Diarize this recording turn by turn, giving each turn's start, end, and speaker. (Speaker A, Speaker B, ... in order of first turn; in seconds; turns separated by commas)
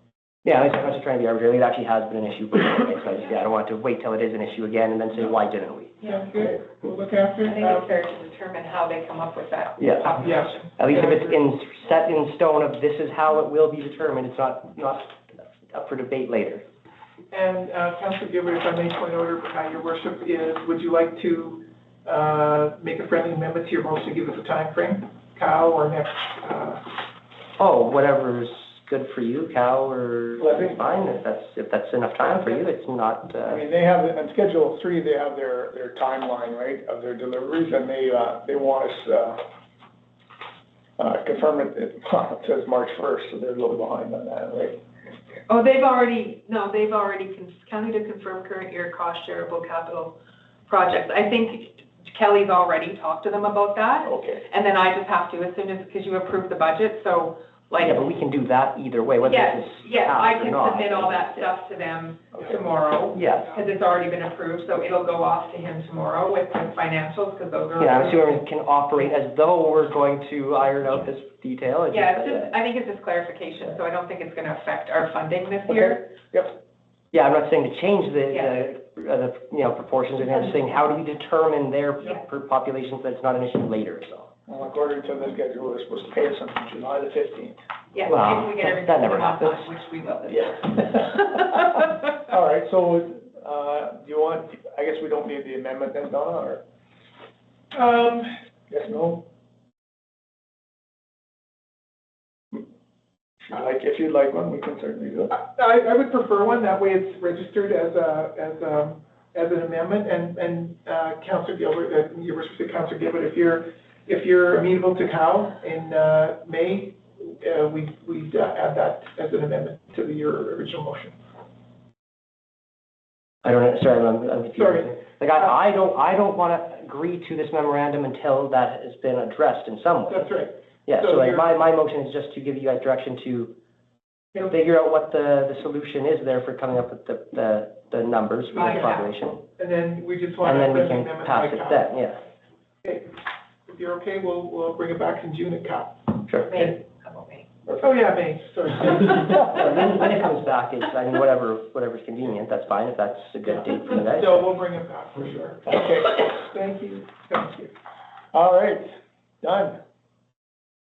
Speaker A: 0.4-5.9, Speaker B: 6.0-7.9, Speaker C: 7.4-10.6, Speaker A: 9.8-10.1, Speaker B: 10.1-11.4, Speaker A: 10.8-16.6, Speaker B: 17.3-26.9, Speaker A: 27.6-33.6, Speaker D: 30.4-31.1, Speaker D: 33.5-39.4, Speaker D: 41.0-44.8, Speaker C: 45.5-50.1, Speaker C: 50.7-58.0, Speaker D: 54.0-54.4, Speaker A: 57.8-61.5, Speaker C: 59.2-68.4, Speaker A: 63.1-63.5, Speaker A: 67.8-72.5, Speaker C: 71.9-76.0, Speaker D: 75.7-76.5, Speaker A: 77.1-84.3, Speaker D: 84.5-87.6, Speaker C: 87.9-91.3, Speaker A: 88.1-89.7, Speaker D: 90.8-91.2, Speaker D: 92.2-96.6, Speaker B: 97.7-98.3, Speaker D: 98.7-99.2, Speaker D: 103.5-105.3, Speaker B: 105.3-121.2, Speaker A: 123.4-130.3, Speaker B: 124.5-124.9, Speaker B: 130.1-131.5, Speaker A: 130.8-133.5, Speaker A: 134.3-139.4, Speaker C: 138.6-139.1, Speaker B: 138.6-141.9, Speaker A: 140.4-142.2, Speaker B: 142.8-143.1, Speaker B: 143.7-146.7, Speaker C: 146.4-147.4, Speaker B: 147.8-149.9, Speaker A: 149.0-154.4, Speaker B: 153.7-157.7, Speaker D: 155.7-156.2, Speaker D: 158.3-158.8, Speaker D: 159.4-159.8